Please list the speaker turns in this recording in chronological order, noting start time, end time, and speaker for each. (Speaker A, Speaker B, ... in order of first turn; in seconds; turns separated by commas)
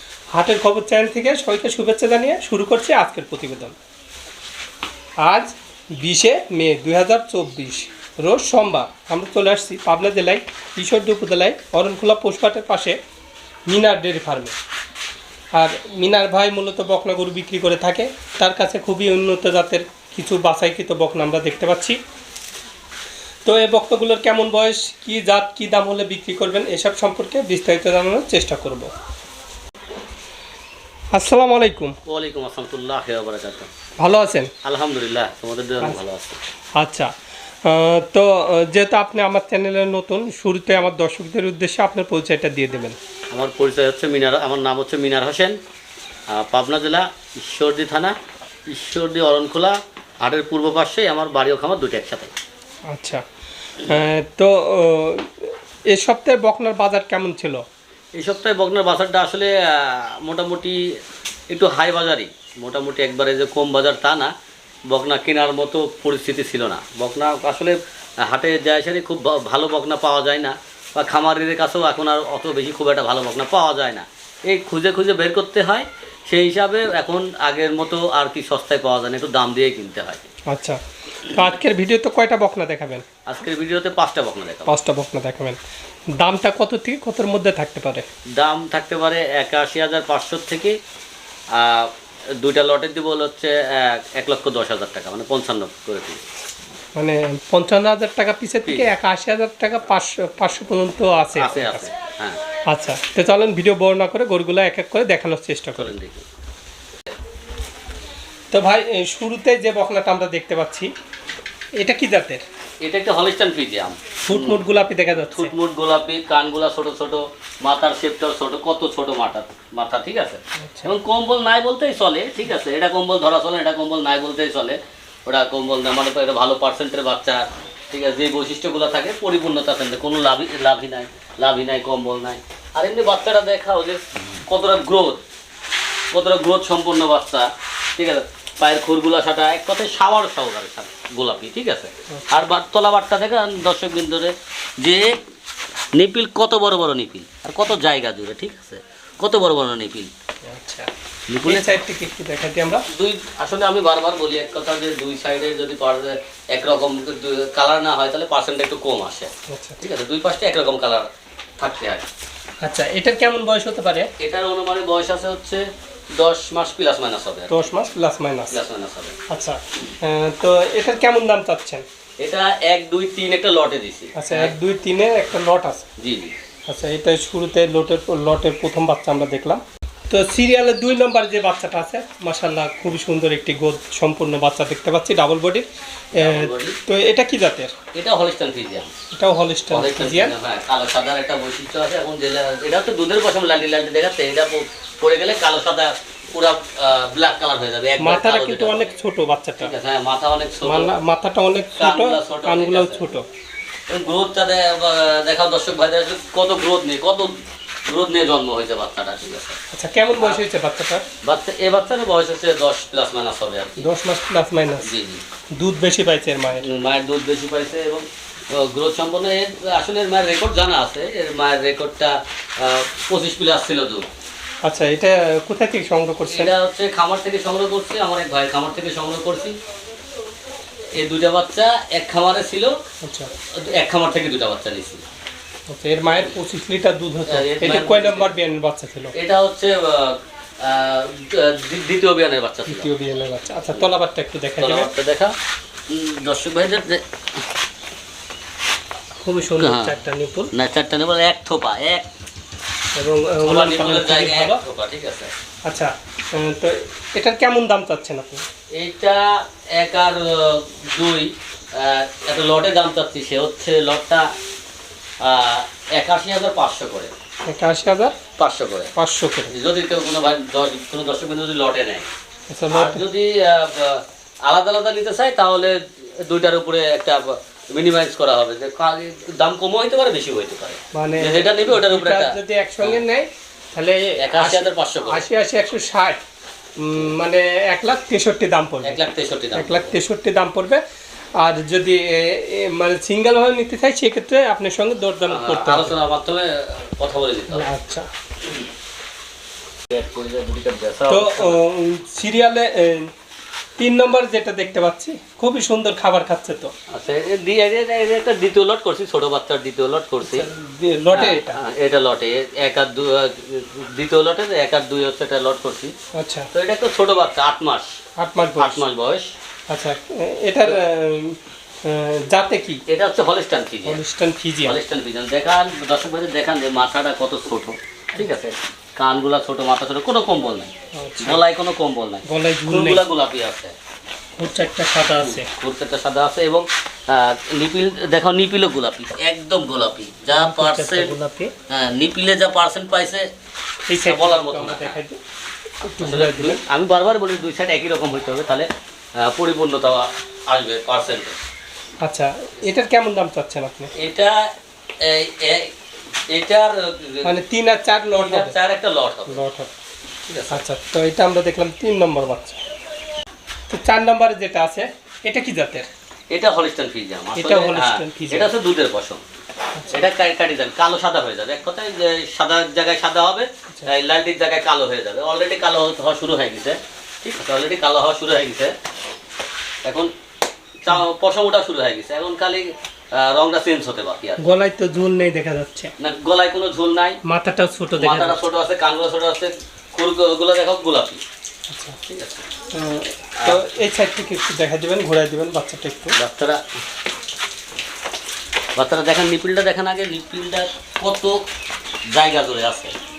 Speaker A: 0.3-3.8, Speaker A: 5.2-13.0, Speaker A: 13.7-14.5, Speaker A: 15.5-22.0, Speaker A: 23.4-28.9, Speaker A: 31.1-31.9, Speaker B: 32.0-33.7, Speaker A: 34.0-34.5, Speaker B: 34.6-36.4, Speaker A: 36.8-37.1, Speaker A: 37.6-43.0, Speaker B: 43.3-45.6, Speaker B: 46.3-48.1, Speaker B: 48.7-52.3, Speaker A: 52.9-53.2, Speaker A: 53.8-57.6, Speaker B: 58.1-60.9, Speaker B: 61.5-64.3, Speaker B: 64.9-80.2, Speaker A: 80.5-80.8, Speaker A: 81.3-83.0, Speaker B: 83.2-84.8, Speaker A: 84.7-85.6, Speaker A: 86.2-88.1, Speaker B: 88.3-90.8, Speaker B: 91.5-96.2, Speaker A: 97.0-101.9, Speaker B: 101.4-102.4, Speaker A: 102.7-105.9, Speaker B: 105.8-106.2, Speaker A: 108.5-110.9, Speaker A: 111.8-112.4, Speaker B: 112.8-114.6, Speaker A: 114.2-115.5, Speaker B: 115.3-135.2, Speaker A: 120.6-120.9, Speaker B: 136.1-145.2, Speaker A: 142.1-142.4, Speaker B: 145.9-150.1, Speaker A: 150.4-150.9, Speaker B: 151.3-151.8, Speaker A: 151.4-152.8, Speaker B: 152.9-161.1, Speaker A: 159.5-159.8, Speaker B: 161.6-162.1, Speaker A: 162.6-164.1, Speaker B: 164.2-167.6, Speaker A: 167.5-168.6, Speaker B: 168.5-169.1, Speaker A: 169.3-171.8, Speaker B: 172.2-174.5, Speaker A: 174.1-175.9, Speaker B: 176.0-176.3, Speaker A: 176.7-187.7, Speaker B: 186.2-186.8, Speaker B: 187.9-188.9, Speaker A: 189.1-190.3, Speaker B: 189.7-198.9, Speaker A: 198.0-199.7, Speaker B: 199.6-200.9, Speaker A: 200.6-203.3, Speaker B: 201.8-203.0, Speaker B: 203.9-209.6, Speaker A: 209.7-211.0, Speaker B: 211.2-213.8, Speaker A: 213.8-214.9, Speaker B: 214.8-215.2, Speaker A: 215.6-216.6, Speaker B: 216.6-224.1, Speaker A: 224.6-226.5, Speaker B: 226.3-229.6, Speaker B: 230.9-232.8, Speaker A: 233.0-233.3, Speaker B: 233.5-235.0, Speaker A: 235.7-239.1, Speaker B: 237.3-238.3, Speaker B: 239.1-242.9, Speaker A: 242.7-244.9, Speaker B: 244.6-245.3, Speaker B: 245.9-247.0, Speaker A: 249.2-250.5, Speaker B: 249.5-249.9, Speaker B: 250.5-252.1, Speaker A: 252.9-254.6, Speaker B: 253.4-255.3, Speaker A: 255.7-258.4, Speaker B: 258.7-264.3, Speaker B: 265.2-267.1, Speaker A: 267.4-268.1, Speaker B: 268.4-268.9, Speaker A: 268.9-269.5, Speaker B: 269.5-272.1, Speaker A: 272.5-273.0, Speaker B: 272.7-283.0, Speaker A: 280.9-286.2, Speaker B: 284.2-285.3, Speaker A: 286.8-289.0, Speaker B: 288.8-289.9, Speaker A: 289.5-290.8, Speaker A: 291.4-295.9, Speaker B: 295.3-297.7, Speaker A: 297.5-298.1, Speaker B: 299.9-301.6, Speaker A: 301.1-303.1, Speaker A: 303.8-306.7, Speaker B: 306.9-310.5, Speaker A: 310.2-311.6, Speaker B: 311.1-315.9, Speaker A: 316.1-316.5, Speaker B: 316.5-317.9, Speaker A: 318.2-318.9, Speaker B: 318.6-319.3, Speaker A: 319.7-322.8, Speaker B: 322.9-324.0, Speaker A: 323.8-324.8, Speaker B: 324.6-333.7, Speaker A: 330.9-331.4, Speaker A: 332.2-333.0, Speaker A: 334.4-335.5, Speaker B: 335.2-341.1, Speaker A: 340.3-341.5, Speaker B: 341.7-343.3, Speaker A: 343.9-345.2, Speaker B: 344.0-345.0, Speaker A: 345.9-346.6, Speaker B: 346.0-351.4, Speaker A: 352.0-353.9, Speaker B: 353.9-355.7, Speaker B: 356.3-357.3, Speaker A: 357.2-358.6, Speaker B: 358.2-359.4, Speaker A: 359.3-359.7, Speaker B: 360.3-360.6, Speaker A: 360.5-362.6, Speaker A: 363.7-365.9, Speaker B: 366.3-369.2, Speaker A: 367.3-368.5, Speaker A: 369.7-370.0, Speaker B: 369.9-378.7, Speaker B: 379.8-380.1, Speaker B: 380.8-384.4, Speaker A: 384.4-385.9, Speaker B: 386.0-387.2, Speaker A: 387.2-388.5, Speaker B: 388.0-391.2, Speaker A: 391.7-392.0, Speaker B: 392.1-392.5, Speaker A: 392.7-396.1, Speaker B: 396.1-396.6, Speaker B: 398.8-401.4, Speaker B: 402.1-402.9